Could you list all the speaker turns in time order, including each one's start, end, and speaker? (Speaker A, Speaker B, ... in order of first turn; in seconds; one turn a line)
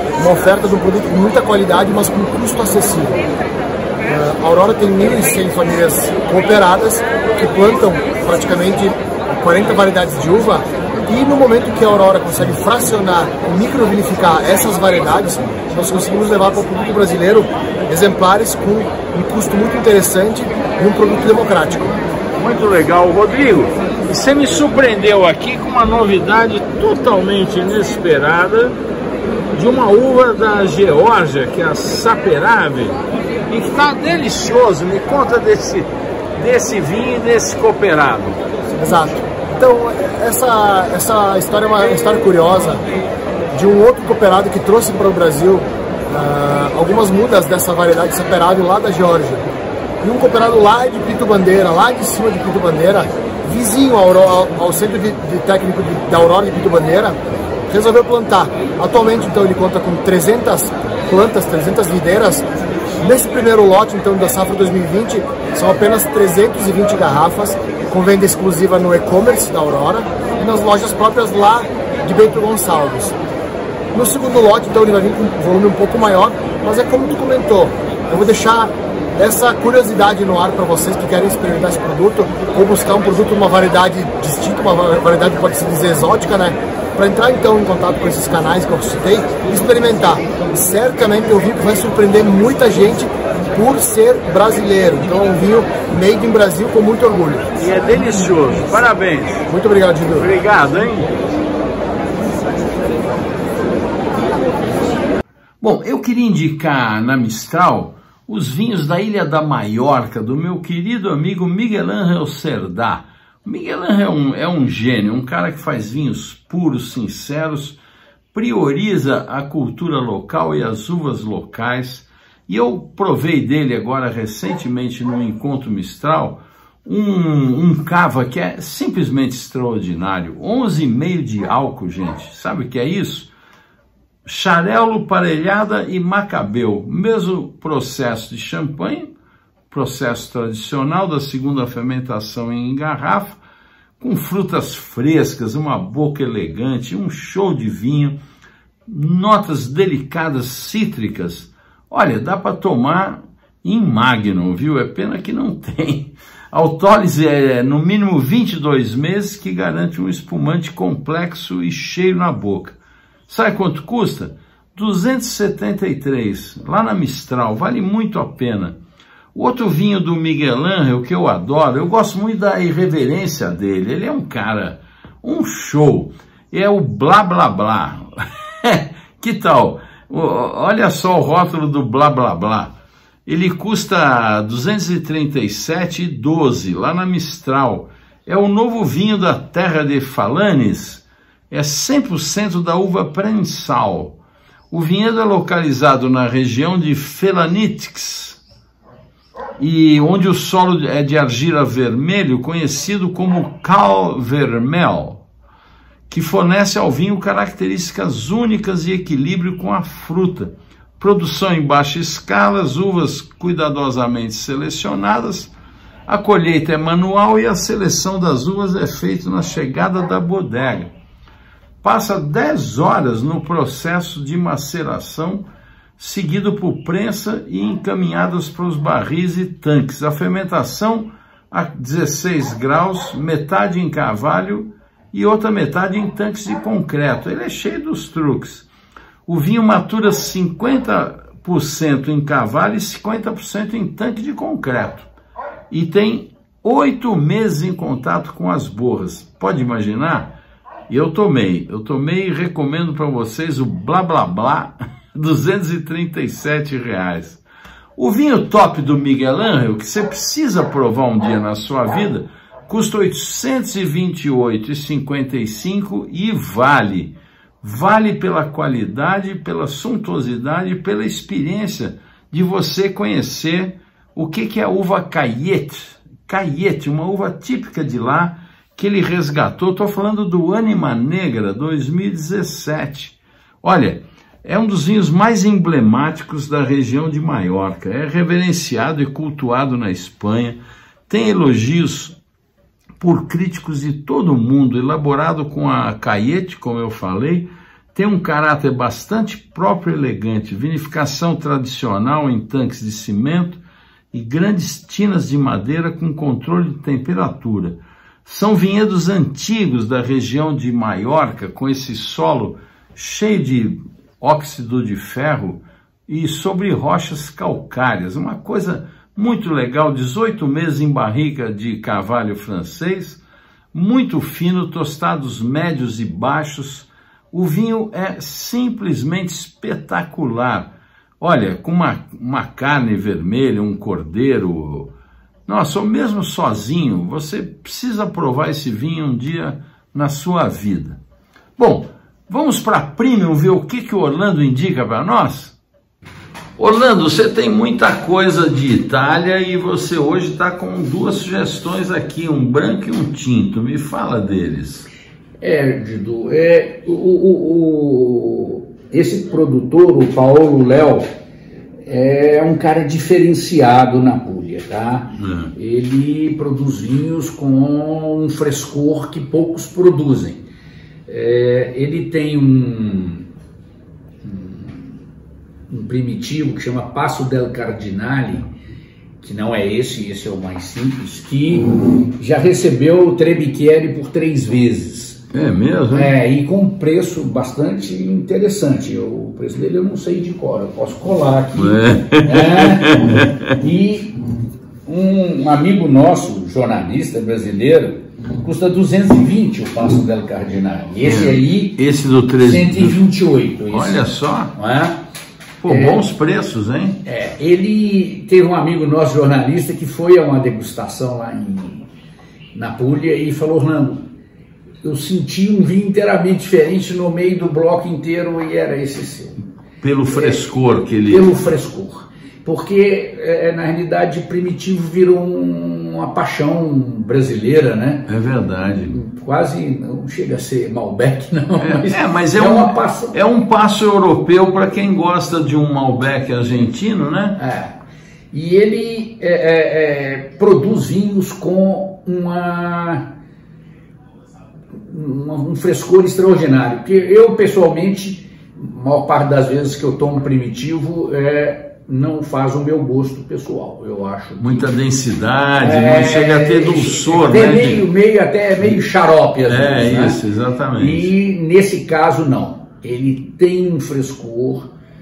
Speaker A: 0.2-3.2
Speaker A: 4.1-22.0
Speaker B: 22.4-28.8
Speaker B: 29.5-33.0
Speaker B: 33.5-38.4
Speaker A: 38.8-42.8
Speaker A: 43.5-49.5
Speaker A: 50.0-62.4
Speaker A: 63.0-73.2
Speaker A: 73.9-97.5
Speaker B: 97.5-99.5
Speaker A: 99.5-100.3
Speaker B: 100.2-101.1
Speaker B: 105.6-117.8
Speaker B: 118.3-133.3
Speaker B: 134.2-139.1
Speaker B: 139.7-143.4
Speaker B: 144.0-148.2
Speaker B: 148.9-168.8
Speaker B: 169.3-182.7
Speaker B: 183.2-194.2
Speaker B: 194.7-198.4
Speaker B: 199.6-205.2
Speaker B: 206.1-215.5
Speaker B: 216.1-220.9
Speaker B: 221.8-225.4
Speaker B: 226.0-238.7
Speaker B: 239.2-245.1
Speaker B: 245.7-250.3
Speaker B: 250.9-257.4
Speaker B: 257.9-292.2
Speaker B: 293.0-323.2
Speaker B: 323.7-334.9
Speaker B: 335.5-341.0
Speaker B: 341.6-345.6
Speaker B: 346.6-354.9
Speaker C: 355.4-361.1
Speaker C: 361.8-370.4
Speaker B: 365.2-365.5
Speaker C: 371.1-373.3
Speaker C: 374.2-375.0
Speaker C: 375.7-378.5
Speaker C: 379.2-385.2
Speaker B: 385.3-386.1
Speaker C: 385.9-394.2
Speaker B: 391.5-393.6
Speaker C: 394.9-401.8
Speaker B: 401.0-403.1
Speaker C: 402.4-405.0
Speaker B: 403.7-404.6
Speaker B: 405.6-407.0
Speaker C: 405.6-406.1
Speaker C: 407.0-411.9
Speaker C: 412.5-414.1
Speaker C: 414.8-419.4
Speaker B: 419.8-421.3
Speaker C: 420.1-428.1
Speaker B: 428.1-429.0
Speaker C: 428.9-433.2
Speaker B: 431.6-437.4
Speaker C: 437.4-437.8
Speaker C: 438.3-443.1
Speaker C: 444.8-454.7
Speaker B: 454.4-457.8
Speaker C: 455.6-460.2
Speaker B: 459.4-461.1
Speaker C: 460.8-464.7